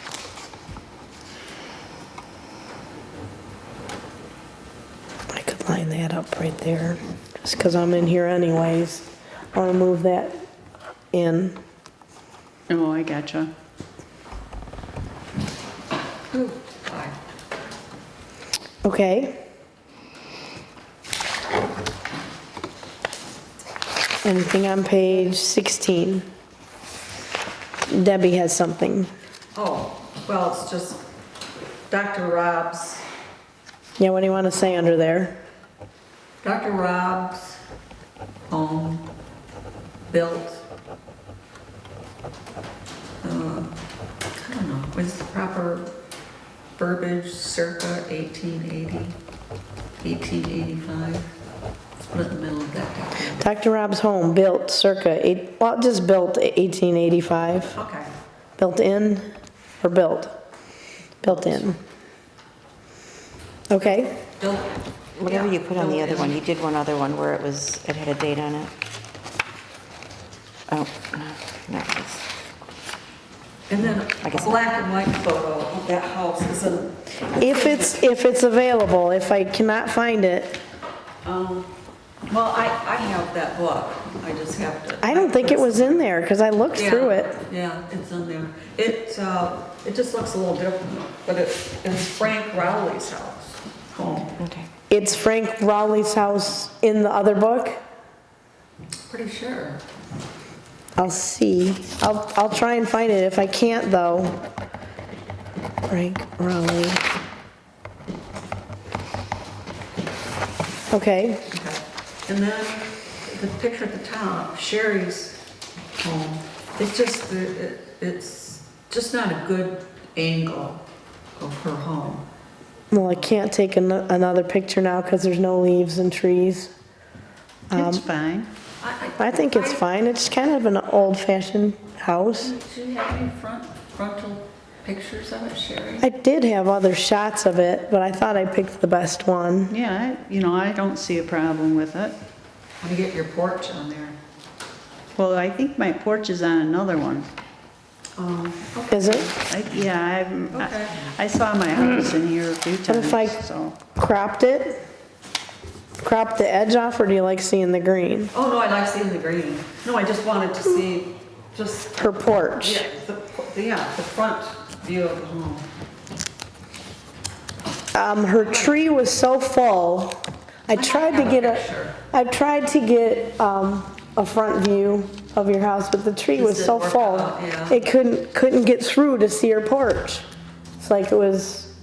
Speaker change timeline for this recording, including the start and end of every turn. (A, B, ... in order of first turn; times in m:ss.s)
0:05.3-0:10.4 A
0:11.1-0:11.6 A
0:12.7-0:13.5 B
0:16.3-0:17.2 C
0:18.8-0:19.4 A
0:24.2-0:26.2 A
0:27.9-0:29.1 A
0:29.6-0:31.0 C
0:31.9-0:33.1 C
0:34.0-0:35.4 A
0:36.4-0:37.6 C
0:38.5-0:39.1 C
0:40.1-0:40.6 C
0:43.2-0:43.8 C
0:44.4-0:45.9 C
0:46.8-0:49.2 C
0:50.0-0:51.3 C
0:52.1-0:53.5 C
0:53.4-0:57.8 A
0:57.7-0:58.1 C
0:58.6-0:59.3 A
0:59.8-1:00.3 A
1:01.2-1:01.8 A
1:01.3-1:01.6 C
1:03.7-1:04.2 A
1:03.8-1:06.4 C
1:05.2-1:08.7 D
1:10.7-1:12.3 D
1:13.7-1:18.1 C
1:14.2-1:14.6 D
1:17.4-1:20.6 A
1:21.2-1:21.7 C
1:22.3-1:26.1 C
1:25.0-1:27.4 A
1:26.8-1:34.4 C
1:34.4-1:34.7 D
1:34.9-1:37.8 A
1:39.1-1:39.8 C
1:41.0-1:44.4 A
1:45.9-1:47.0 A
1:50.9-1:51.5 A
1:51.5-1:55.4 C
1:56.0-2:00.8 C
2:01.4-2:02.2 C
2:02.9-2:06.7 A
2:03.1-2:03.4 C
2:07.7-2:08.0 A
2:07.7-2:08.5 B
2:08.8-2:09.8 C
2:09.2-2:12.5 A
2:12.4-2:16.1 C
2:16.0-2:19.7 A
2:19.7-2:22.2 B
2:22.8-2:24.2 C
2:25.2-2:27.3 B
2:28.2-2:29.3 C
2:28.9-2:29.3 A
2:29.3-2:33.8 B
2:30.5-2:31.1 C
2:32.9-2:33.4 A
2:34.0-2:34.8 A
2:36.0-2:38.3 A
2:38.3-2:45.7 C
2:42.0-2:42.9 A
2:47.9-3:00.2 A
2:48.4-2:48.8 C
2:50.7-2:52.0 C
2:56.4-2:57.8 C
3:00.8-3:01.7 A